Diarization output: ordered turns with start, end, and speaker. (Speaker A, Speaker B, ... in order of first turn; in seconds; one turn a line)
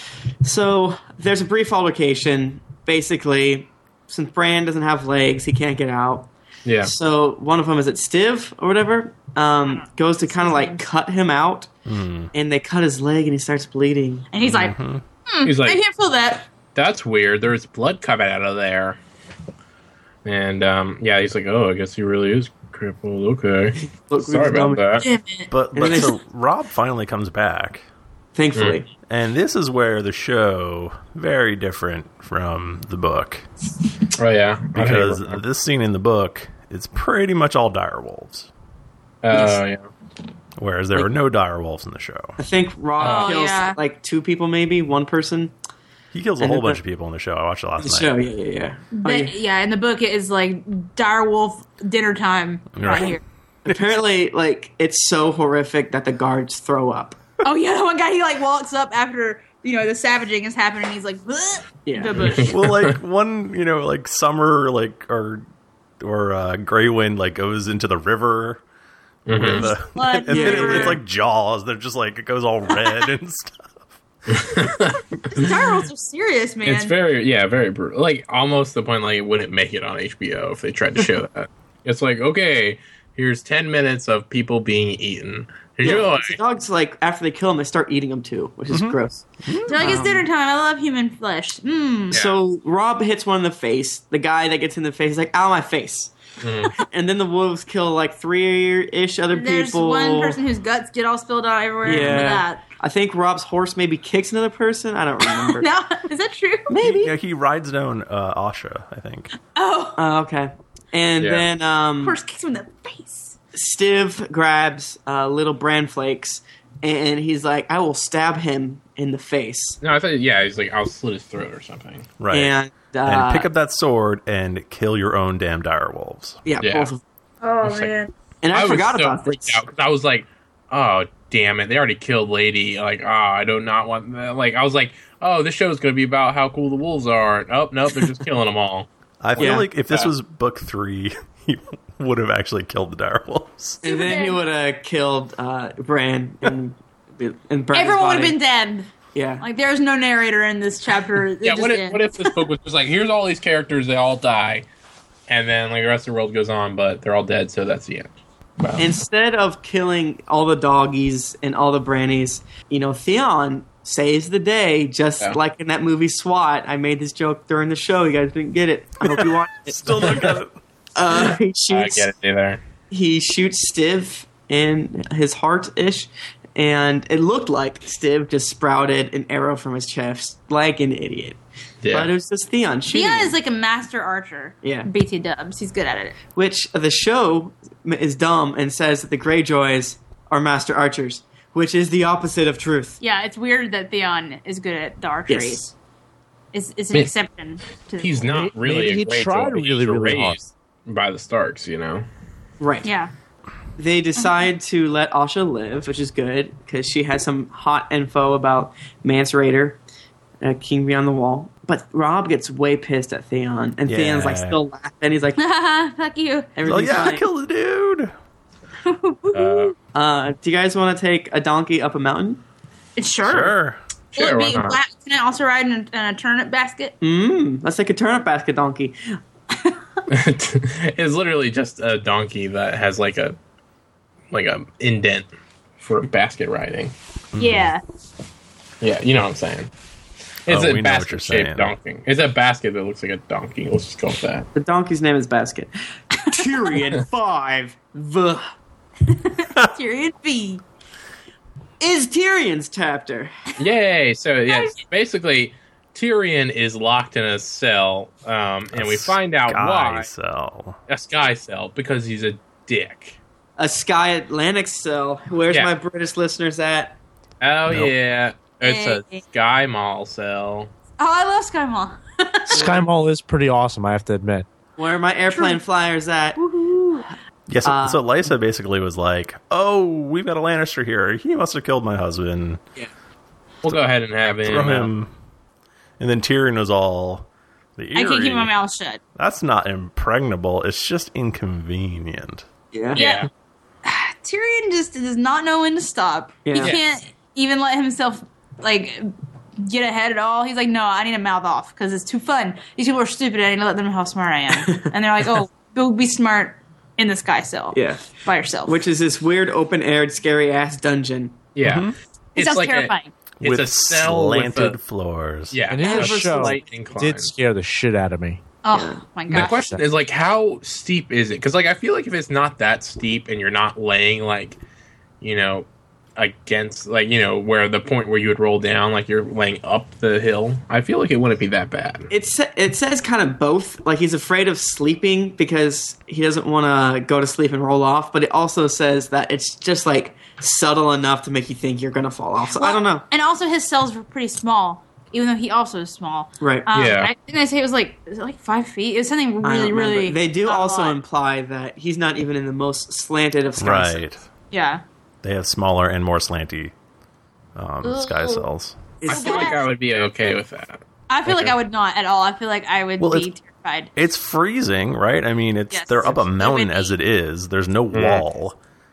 Speaker A: 0.4-6.3
Speaker B: 6.7-6.9
Speaker A: 6.8-11.7
Speaker C: 9.7-10.8
Speaker D: 11.9-12.3
Speaker A: 12.3-14.3
Speaker C: 14.3-16.5
Speaker D: 14.4-15.0
Speaker B: 15.4-15.8
Speaker B: 16.8-19.0
Speaker B: 20.2-25.1
Speaker A: 24.1-24.8
Speaker C: 25.0-25.5
Speaker D: 25.5-27.9
Speaker A: 25.7-26.1
Speaker A: 28.4-28.9
Speaker D: 29.1-33.4
Speaker B: 34.1-35.4
Speaker D: 34.8-38.5
Speaker B: 39.2-39.9
Speaker A: 39.3-39.6
Speaker D: 40.6-42.4
Speaker A: 42.4-45.5
Speaker B: 43.0-43.4
Speaker C: 43.0-43.8
Speaker D: 46.1-48.1
Speaker A: 46.4-46.8
Speaker A: 47.8-49.3
Speaker C: 48.9-53.2
Speaker D: 52.7-53.8
Speaker A: 53.6-57.2
Speaker C: 57.4-62.5
Speaker A: 61.9-62.3
Speaker B: 62.2-63.0
Speaker D: 62.5-65.4
Speaker D: 66.0-68.6
Speaker B: 69.3-69.7
Speaker D: 69.3-73.9
Speaker C: 69.6-71.0
Speaker A: 70.3-71.0
Speaker B: 74.3-75.5
Speaker C: 75.3-76.9
Speaker B: 76.7-86.4
Speaker A: 85.8-90.2
Speaker D: 88.7-90.2
Speaker C: 89.7-92.2
Speaker B: 92.1-92.4
Speaker A: 92.1-96.1
Speaker B: 96.4-96.7
Speaker A: 96.7-100.4
Speaker C: 99.3-102.6
Speaker A: 101.8-105.7
Speaker B: 101.9-102.3
Speaker C: 105.2-106.8
Speaker A: 106.7-107.1
Speaker D: 106.8-109.3
Speaker C: 109.5-110.0
Speaker A: 110.0-112.2
Speaker B: 111.2-111.4
Speaker C: 112.0-113.4
Speaker A: 113.5-119.8
Speaker B: 119.8-122.1
Speaker D: 122.2-122.5
Speaker A: 122.3-123.5
Speaker D: 123.0-126.4
Speaker A: 126.5-127.0
Speaker B: 126.6-126.9
Speaker C: 127.4-128.1
Speaker B: 127.6-127.9
Speaker A: 128.4-129.6
Speaker B: 128.5-140.1
Speaker D: 139.2-143.8
Speaker A: 139.4-139.7
Speaker C: 143.8-144.4
Speaker A: 143.8-148.4
Speaker C: 147.7-148.9
Speaker A: 149.1-149.4
Speaker C: 149.4-152.4
Speaker B: 151.4-154.7
Speaker B: 155.3-158.9
Speaker A: 158.8-170.4
Speaker D: 169.0-170.6
Speaker A: 170.9-172.1
Speaker B: 171.1-172.6
Speaker A: 172.9-183.3
Speaker B: 181.8-182.1
Speaker C: 182.9-186.2
Speaker A: 184.6-184.9
Speaker A: 186.3-193.0
Speaker C: 193.0-195.7
Speaker A: 195.3-195.7
Speaker C: 196.5-198.3
Speaker B: 198.0-202.1
Speaker E: 198.3-200.4
Speaker A: 202.6-202.9
Speaker C: 202.8-203.1
Speaker A: 203.8-209.8
Speaker C: 204.2-204.5
Speaker A: 210.4-215.4
Speaker D: 213.9-214.6
Speaker C: 215.4-217.0
Speaker A: 216.6-217.2
Speaker D: 216.7-218.1
Speaker C: 218.8-219.7
Speaker B: 219.3-219.7
Speaker A: 219.9-222.4
Speaker C: 223.0-223.6
Speaker D: 223.2-223.8
Speaker B: 224.1-224.8
Speaker C: 224.2-226.9
Speaker A: 227.0-229.0
Speaker B: 230.1-233.3
Speaker B: 234.3-235.3
Speaker B: 235.8-236.9
Speaker D: 237.3-237.7
Speaker C: 237.4-237.8
Speaker B: 238.8-239.7
Speaker B: 240.5-244.5
Speaker D: 240.5-241.7
Speaker A: 244.6-245.7
Speaker A: 246.2-248.4
Speaker C: 249.1-250.6
Speaker A: 251.8-253.3
Speaker B: 253.6-260.1
Speaker C: 254.5-254.8
Speaker D: 258.7-260.8
Speaker B: 260.9-263.2
Speaker A: 263.6-267.0
Speaker B: 267.4-270.7
Speaker D: 267.7-267.9
Speaker C: 268.6-269.2
Speaker C: 271.0-272.7
Speaker E: 272.5-274.5
Speaker A: 272.5-272.9
Speaker A: 274.8-276.4
Speaker C: 275.3-275.6
Speaker C: 276.4-277.1
Speaker D: 277.5-282.6
Speaker A: 277.6-278.0
Speaker B: 283.6-284.9
Speaker D: 284.4-285.1
Speaker D: 286.0-288.5
Speaker C: 287.9-289.0
Speaker D: 289.1-292.4
Speaker A: 292.7-293.0
Speaker B: 292.9-293.3
Speaker C: 292.9-293.3
Speaker C: 293.8-308.8
Speaker A: 296.5-296.8
Speaker A: 307.7-308.0
Speaker A: 308.6-311.4
Speaker B: 311.6-314.8
Speaker D: 311.6-311.9
Speaker C: 312.4-313.1
Speaker D: 313.4-315.6
Speaker B: 315.5-317.3
Speaker E: 315.7-318.4
Speaker A: 315.8-316.6
Speaker C: 318.6-319.7
Speaker A: 318.7-319.0
Speaker B: 319.3-324.6
Speaker E: 319.3-319.8
Speaker B: 325.2-332.1
Speaker A: 332.1-343.1
Speaker C: 342.5-351.0
Speaker A: 346.4-346.7
Speaker B: 346.8-347.1
Speaker A: 349.4-354.1
Speaker D: 353.6-354.2
Speaker C: 354.5-354.8
Speaker D: 355.2-356.7
Speaker D: 357.6-358.8
Speaker C: 357.8-358.4
Speaker A: 359.0-359.6
Speaker B: 359.1-361.5
Speaker C: 359.1-359.6
Speaker C: 361.1-363.9
Speaker D: 363.0-363.3
Speaker D: 364.0-368.6
Speaker C: 365.7-366.9
Speaker B: 367.9-368.2